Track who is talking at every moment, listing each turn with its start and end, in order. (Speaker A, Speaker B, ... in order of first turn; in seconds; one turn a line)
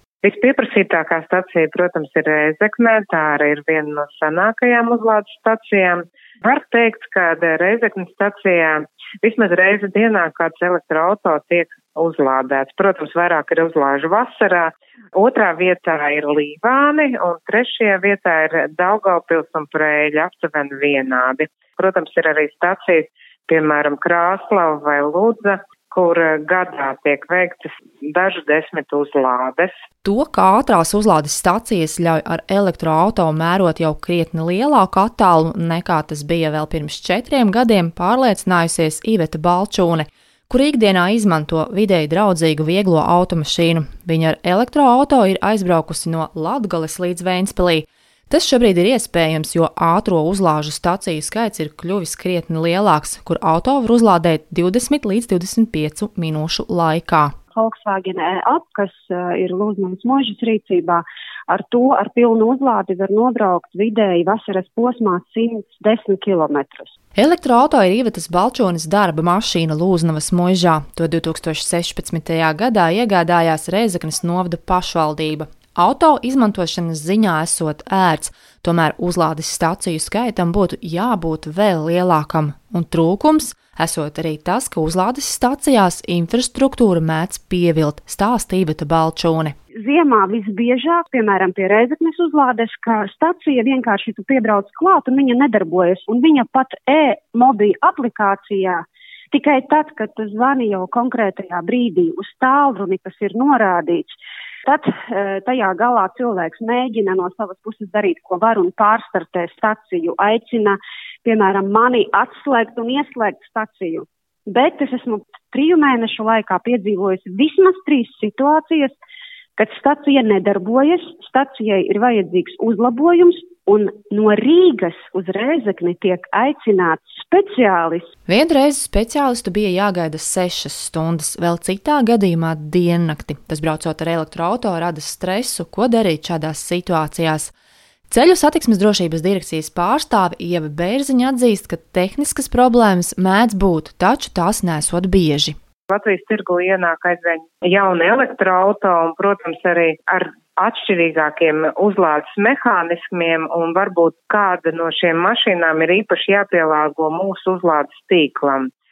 Speaker A: 0.2-29.7
Speaker B: 30.0-57.3
Speaker C: 57.5-66.9
Speaker B: 67.2-89.5
Speaker C: 89.8-119.0
Speaker C: 119.6-128.1
Speaker B: 128.3-137.5
Speaker B: 138.1-145.5
Speaker A: 145.9-158.7